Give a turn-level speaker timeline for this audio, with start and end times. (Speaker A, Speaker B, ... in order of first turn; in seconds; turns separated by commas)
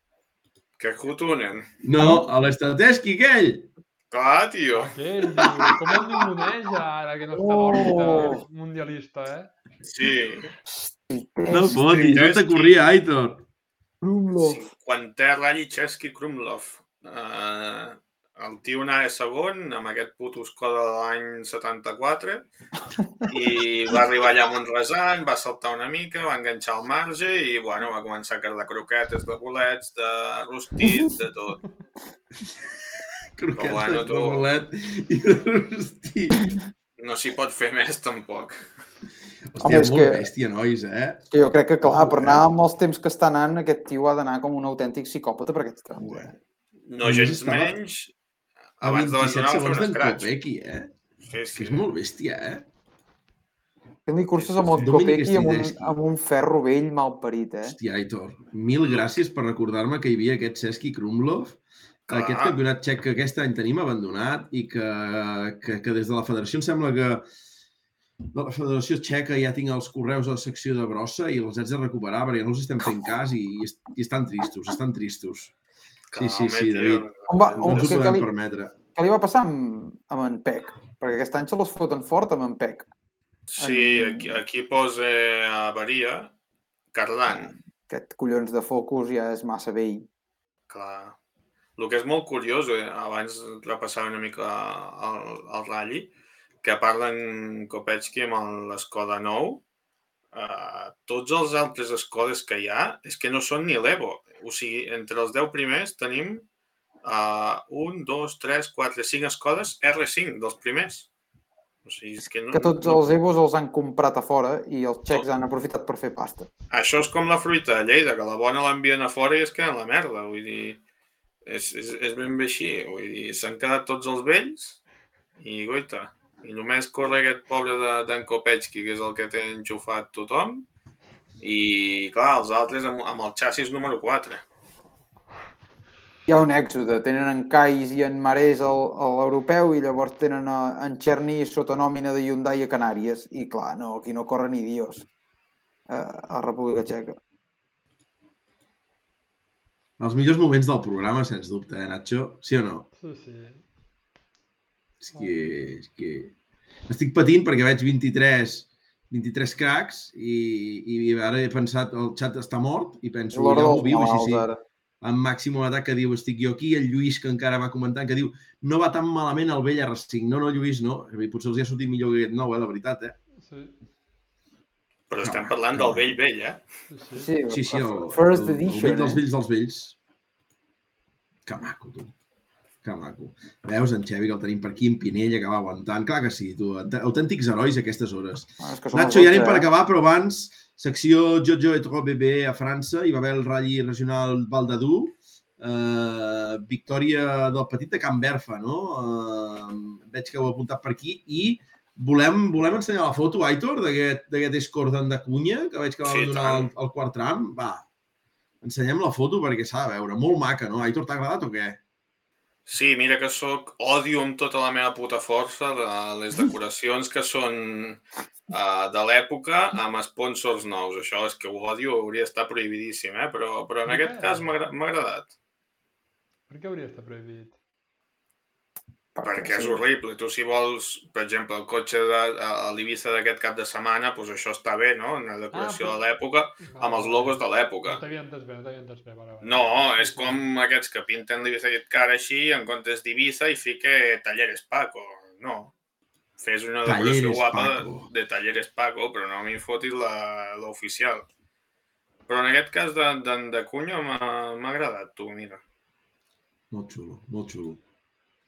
Speaker A: 0.8-1.7, Speaker B: 1.8-3.7, Speaker C: 2.0-2.2, Speaker A: 4.1-4.9, Speaker D: 4.8-9.5, Speaker C: 7.4-8.4, Speaker A: 9.8-10.5, Speaker C: 10.9-12.2, Speaker B: 11.5-13.4, Speaker A: 12.1-12.8, Speaker C: 14.0-14.7, Speaker A: 14.4-22.4, Speaker A: 23.3-31.6, Speaker B: 33.4-36.6, Speaker A: 33.5-34.5, Speaker A: 37.0-38.6, Speaker B: 39.5-41.3, Speaker C: 39.6-40.3, Speaker C: 41.3-46.3, Speaker B: 41.8-42.5, Speaker A: 46.9-48.1, Speaker B: 47.0-47.8, Speaker A: 48.8-50.3, Speaker B: 48.8-50.9, Speaker A: 51.2-51.9, Speaker B: 51.5-52.6, Speaker C: 54.1-57.8, Speaker B: 54.4-56.0, Speaker B: 57.7-67.3, Speaker A: 62.1-62.6, Speaker B: 68.3-75.5, Speaker A: 76.1-78.0, Speaker B: 76.1-77.1, Speaker C: 77.3-78.3, Speaker B: 77.6-78.7, Speaker C: 78.9-82.9, Speaker A: 83.5-86.3, Speaker C: 83.6-84.3, Speaker A: 86.9-87.5, Speaker C: 87.3-90.1, Speaker A: 90.7-91.2, Speaker A: 91.8-96.1, Speaker A: 96.6-99.6, Speaker A: 100.3-106.5, Speaker A: 107.0-111.1, Speaker A: 111.8-112.9, Speaker C: 112.5-116.5, Speaker A: 116.7-120.8, Speaker A: 121.4-124.8, Speaker A: 125.4-130.7, Speaker A: 131.4-134.4, Speaker C: 136.3-145.1, Speaker C: 145.9-147.2, Speaker B: 150.0-152.9, Speaker D: 153.0-153.7, Speaker B: 155.1-156.3, Speaker B: 156.9-164.5, Speaker C: 163.3-164.6, Speaker B: 165.0-173.2, Speaker D: 173.4-173.8, Speaker A: 175.1-176.6, Speaker B: 175.2-176.1, Speaker D: 176.9-177.3, Speaker C: 177.2-179.2, Speaker B: 177.5-180.0, Speaker B: 181.4-182.1, Speaker B: 182.8-207.9, Speaker C: 188.6-189.7, Speaker A: 206.0-206.7, Speaker B: 208.6-211.8, Speaker A: 212.7-225.3, Speaker D: 223.9-224.5, Speaker D: 226.5-227.6, Speaker C: 229.2-229.8, Speaker A: 229.2-238.0, Speaker D: 235.5-236.0, Speaker D: 236.6-240.4, Speaker A: 239.4-245.7, Speaker A: 246.4-251.3, Speaker B: 246.8-248.1, Speaker A: 252.3-255.6, Speaker B: 256.7-257.8